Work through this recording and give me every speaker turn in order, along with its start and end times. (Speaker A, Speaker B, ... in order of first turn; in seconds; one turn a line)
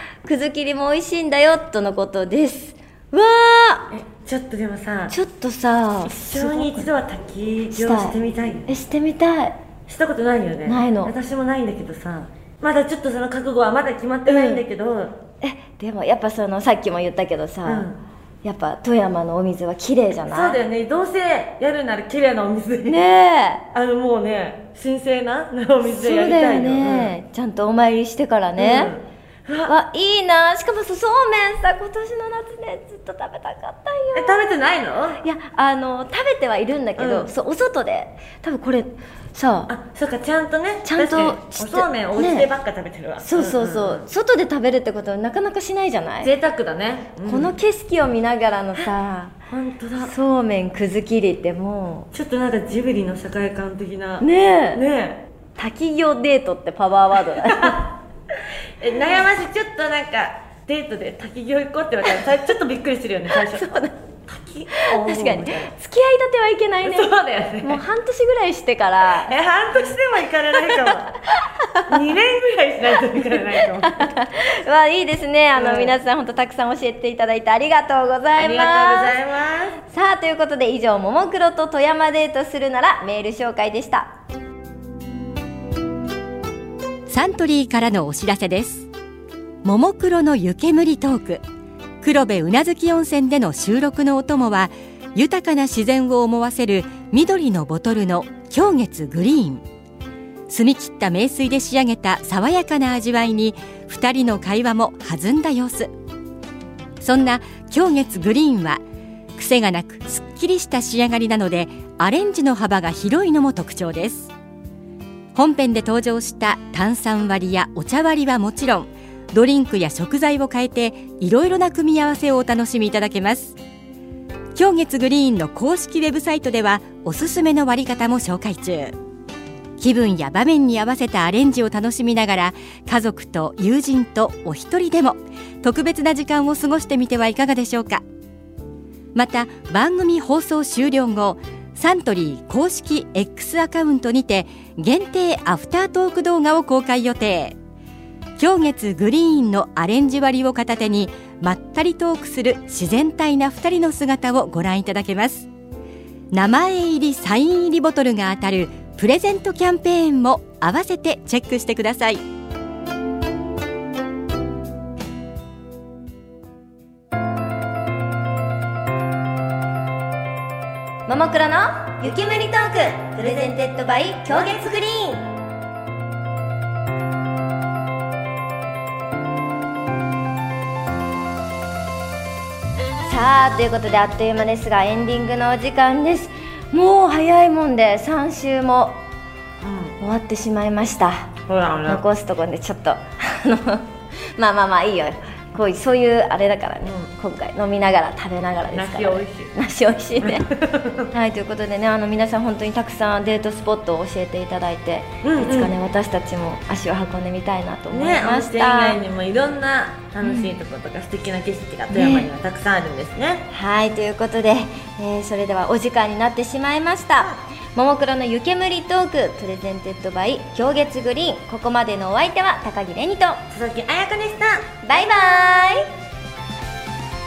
Speaker A: 0.2-3.9
Speaker B: 3.9-5.1
Speaker A: 5.1-6.9
Speaker B: 6.0-8.6
Speaker A: 7.7-8.1
Speaker A: 8.7-9.5
Speaker B: 9.9-15.2
Speaker A: 10.6-11.1
Speaker A: 14.2-14.6
Speaker A: 15.4-17.9
Speaker B: 17.6-18.0
Speaker A: 18.4-20.6
Speaker B: 20.3-23.0
Speaker A: 22.9-23.6
Speaker B: 23.7-27.1
Speaker A: 25.8-28.9
Speaker B: 28.6-29.7
Speaker A: 29.6-34.5
Speaker B: 34.1-35.2
Speaker A: 35.2-39.7
Speaker B: 37.0-37.3
Speaker B: 39.7-44.0
Speaker A: 40.8-42.5
Speaker A: 43.2-46.3
Speaker B: 46.2-47.5
Speaker A: 47.2-49.3
Speaker B: 49.5-50.1
Speaker A: 50.0-52.1
Speaker B: 52.1-55.2
Speaker A: 54.2-54.8
Speaker A: 55.5-57.9
Speaker B: 58.8-63.7
Speaker A: 63.3-63.9
Speaker B: 64.3-65.7
Speaker A: 64.7-69.3
Speaker B: 66.8-67.8
Speaker B: 69.2-71.1
Speaker A: 70.7-71.8
Speaker B: 71.9-74.1
Speaker A: 73.3-79.2
Speaker B: 75.5-76.0
Speaker B: 78.4-79.8
Speaker A: 79.8-84.1
Speaker C: 87.1-88.9
Speaker C: 89.6-91.4
Speaker C: 92.0-99.6
Speaker C: 100.5-105.9
Speaker C: 107.0-108.8
Speaker C: 109.3-114.3
Speaker C: 115.3-123.6
Speaker C: 124.5-129.0
Speaker C: 129.8-138.0
Speaker C: 139.1-147.6
Speaker C: 148.4-155.5
Speaker C: 156.3-162.2
Speaker A: 171.1-175.2
Speaker A: 183.0-189.0
Speaker B: 189.6-189.9
Speaker A: 190.0-191.3
Speaker B: 191.5-192.0
Speaker A: 191.8-200.5
Speaker B: 196.8-197.1
Speaker B: 198.7-199.5
Speaker B: 200.2-201.1
Speaker A: 201.1-209.0
Speaker B: 205.2-205.7
Speaker B: 207.9-213.4
Speaker A: 210.2-210.5
Speaker A: 211.9-212.3
Speaker A: 213.5-223.4
Speaker B: 223.5-224.6
Speaker A: 224.8-225.8